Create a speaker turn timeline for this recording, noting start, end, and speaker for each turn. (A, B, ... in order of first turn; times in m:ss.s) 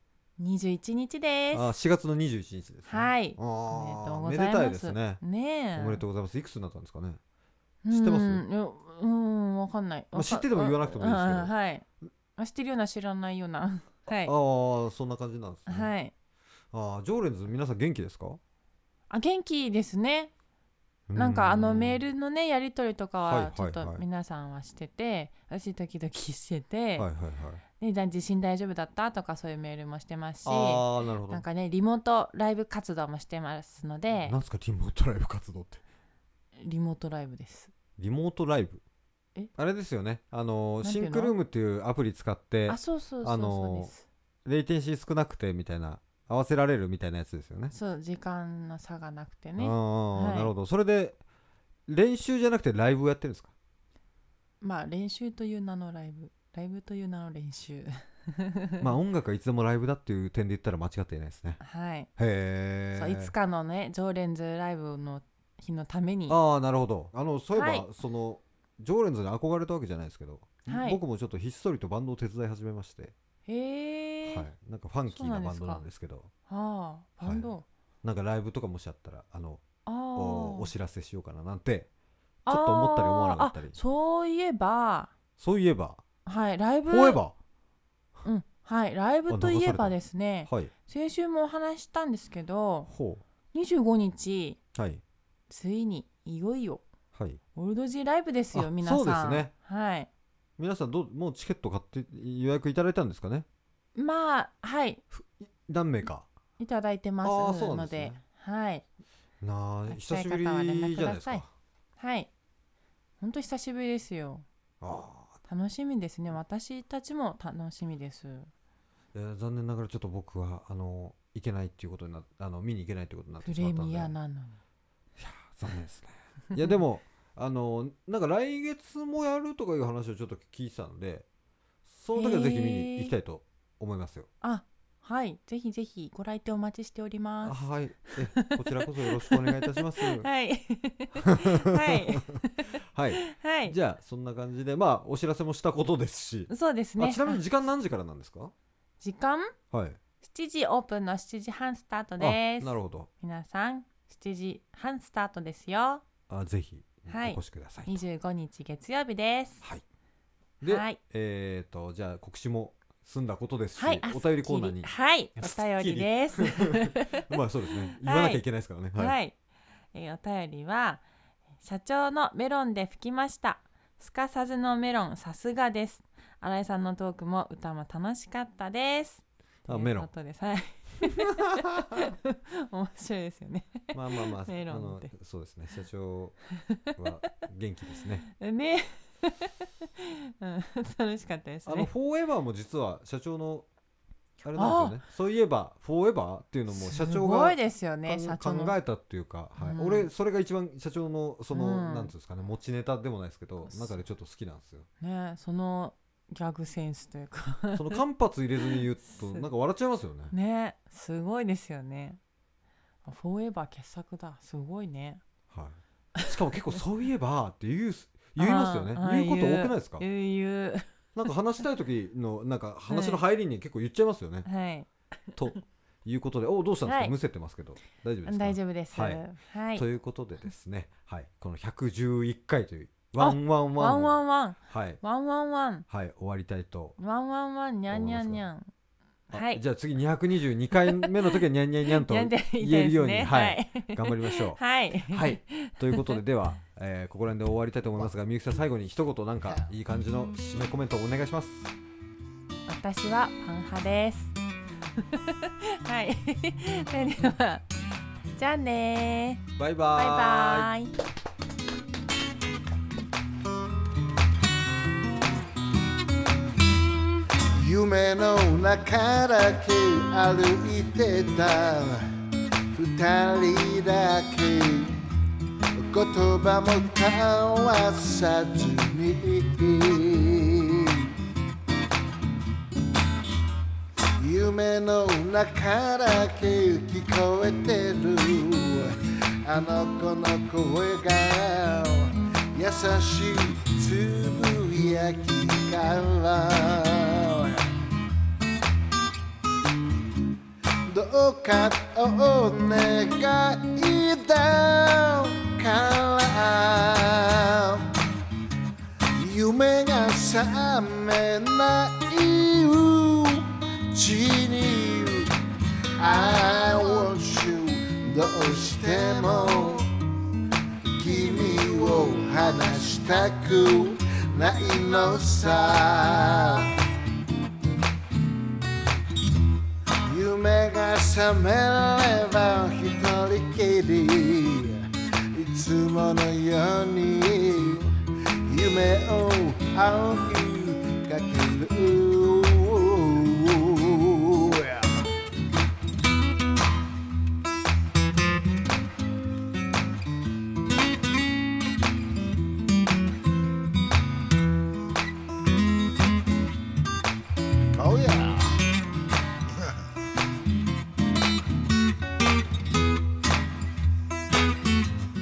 0:00.4-0:01.7 A
0:01.5-0:05.2 B
0:02.9-0:06.0 A
0:05.7-0:07.2 B
0:07.8-0:11.8 A
0:07.9-0:08.4 B
0:10.1-0:11.5 B
0:12.4-0:14.3 A
0:14.2-0:15.9 B
0:15.7-0:16.1 A
0:16.7-0:18.4 B
0:19.1-0:20.3 A
0:21.1-0:22.0 B
0:21.2-0:27.1 A
0:23.2-0:24.0 B
0:27.0-0:27.6 B
0:27.8-0:34.4 A
0:30.4-0:31.4 B
0:34.1-0:35.8 B
0:36.6-0:37.7 A
0:38.0-0:38.8 B
0:39.6-0:43.9 B
0:40.8-0:41.4 A
0:42.7-0:44.0 A
0:44.4-0:47.7 B
0:47.7-0:50.5 A
0:49.6-0:51.2 B
0:51.9-0:53.5 B
0:54.6-0:58.9 A
0:58.8-1:01.6 B
1:01.6-1:02.1 A
1:02.2-1:03.3 B
1:03.0-1:06.4 A
1:06.3-1:13.1 B
1:07.5-1:07.9 A
1:10.7-1:11.0 A
1:13.4-1:14.5 A
1:14.2-1:16.3 B
1:15.1-1:15.8 A
1:16.5-1:17.6 A
1:17.2-1:17.5 B
1:18.0-1:19.6 B
1:19.9-1:20.7 A
1:20.1-1:21.9 B
1:22.4-1:25.1 A
1:22.5-1:23.8 B
1:25.4-1:26.0 B
1:26.2-1:27.2 A
1:26.9-1:27.4 B
1:28.2-1:32.9 A
1:29.3-1:30.7 B
1:32.9-1:33.2 B
1:33.5-1:34.6 A
1:34.7-1:35.0 B
1:35.5-1:36.9 A
1:37.1-1:37.4 B
1:37.6-1:40.1 A
1:38.5-1:39.5 B
1:40.6-1:43.4 B
1:43.9-1:45.0 A
1:45.1-1:46.3 B
1:46.6-1:48.8 A
1:47.2-1:48.2 B
1:49.4-1:51.5 B
1:49.9-1:51.4 A
1:52.0-1:52.3 A
1:53.2-1:54.4 A
1:54.8-1:55.4 B
1:55.5-1:58.5 A
1:59.1-2:04.1 B
2:03.4-2:04.6 A
2:05.2-2:11.2 B
2:11.9-2:14.3 B
2:12.2-2:13.1 A
2:14.4-2:17.7 A
2:17.4-2:20.3 B
2:18.3-2:22.7 A
2:21.2-2:28.5 B
2:23.3-2:23.7 A
2:26.5-2:27.4 A
2:29.0-2:29.5 A
2:29.7-2:30.0 B
2:30.2-2:36.0 A
2:32.2-2:33.1 B
2:36.3-2:38.0 B
2:37.1-2:39.6 A
2:40.6-2:49.2 B
2:40.6-2:41.0 A
2:43.8-2:47.4 A
2:47.9-2:48.4 A
2:49.0-2:49.4 A
2:49.9-2:51.0 A
2:51.6-3:05.1 A
2:59.7-3:00.1 B
3:01.2-3:01.9 B
3:03.9-3:06.4 B
3:07.0-3:08.2 B
3:08.3-3:11.9 A
3:11.6-3:13.6 B
3:14.4-3:24.9 B
3:14.6-3:14.9 A
3:16.7-3:18.8 A
3:19.6-3:20.1 A
3:21.5-3:22.1 A
3:23.6-3:24.0 A
3:25.0-3:28.0 A
3:27.7-3:30.3 B
3:30.3-3:32.2 A
3:33.0-3:35.2 A
3:35.5-3:40.0 B
3:38.4-3:40.9 A
3:41.1-3:44.5 B
3:42.9-3:43.2 A
3:44.4-3:44.9 A
3:45.4-3:55.0 B
3:46.9-3:47.1 A
3:48.2-3:49.9 A
3:53.2-3:55.9 A
3:55.9-3:57.0 B
3:57.0-3:58.7 A
3:57.9-3:58.4 B
3:59.3-3:59.6 A
3:59.3-4:04.6 B
4:01.0-4:01.4 A
4:01.9-4:06.2 A
4:05.1-4:11.7 B
4:12.7-4:14.3 A
4:15.0-4:17.7 A
4:18.4-4:20.9 A
4:19.6-4:20.7 B
4:27.5-4:32.1 C
4:32.7-4:35.0 C
4:35.8-4:41.1 C
4:44.2-4:57.7 C
5:00.9-5:07.9 C
5:09.1-5:15.4 C
5:16.0-5:19.9 C
5:20.8-5:26.8 C
5:30.0-5:45.0 C
5:57.7-5:58.6 C